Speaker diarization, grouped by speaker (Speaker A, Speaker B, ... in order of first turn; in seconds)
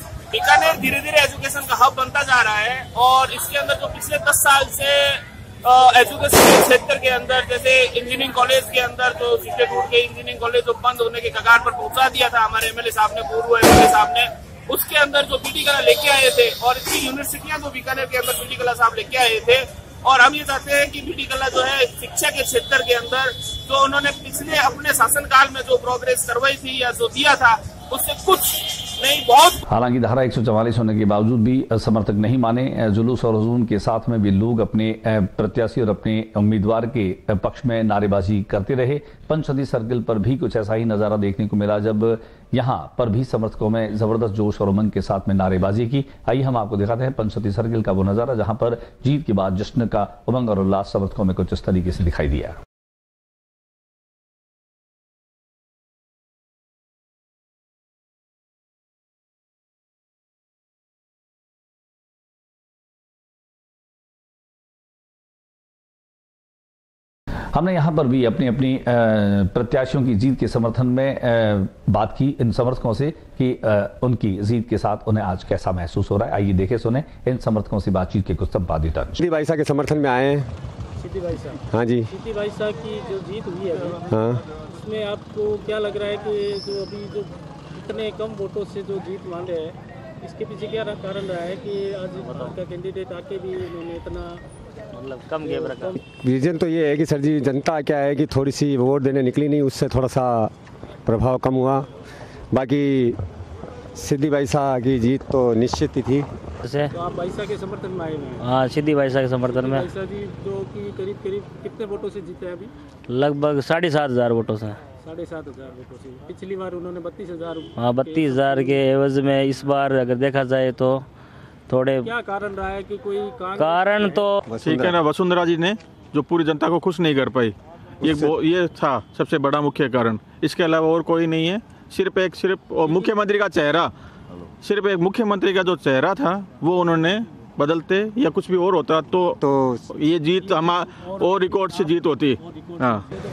Speaker A: 0.3-29.6
Speaker B: 29.7-52.6, 67.5-79.2
Speaker C: 79.2-80.5, 81.7-82.1, 84.1-84.4, 96.1-100.5, 101.1-101.9, 102.5-103.2, 104.0-106.3, 124.5-125.0, 128.0-128.3, 139.4-139.9
Speaker D: 81.0-81.6, 82.1-84.0, 84.7-94.4, 107.0-108.4, 109.6-112.7, 115.0-117.7, 122.0-123.7
Speaker E: 92.2-92.6, 94.9-96.0, 106.6-106.9, 108.4-109.9, 113.1-114.8, 117.8-121.0, 121.7-122.1, 123.5-124.4
Speaker F: 124.6-133.9, 134.6-139.4, 139.9-143.1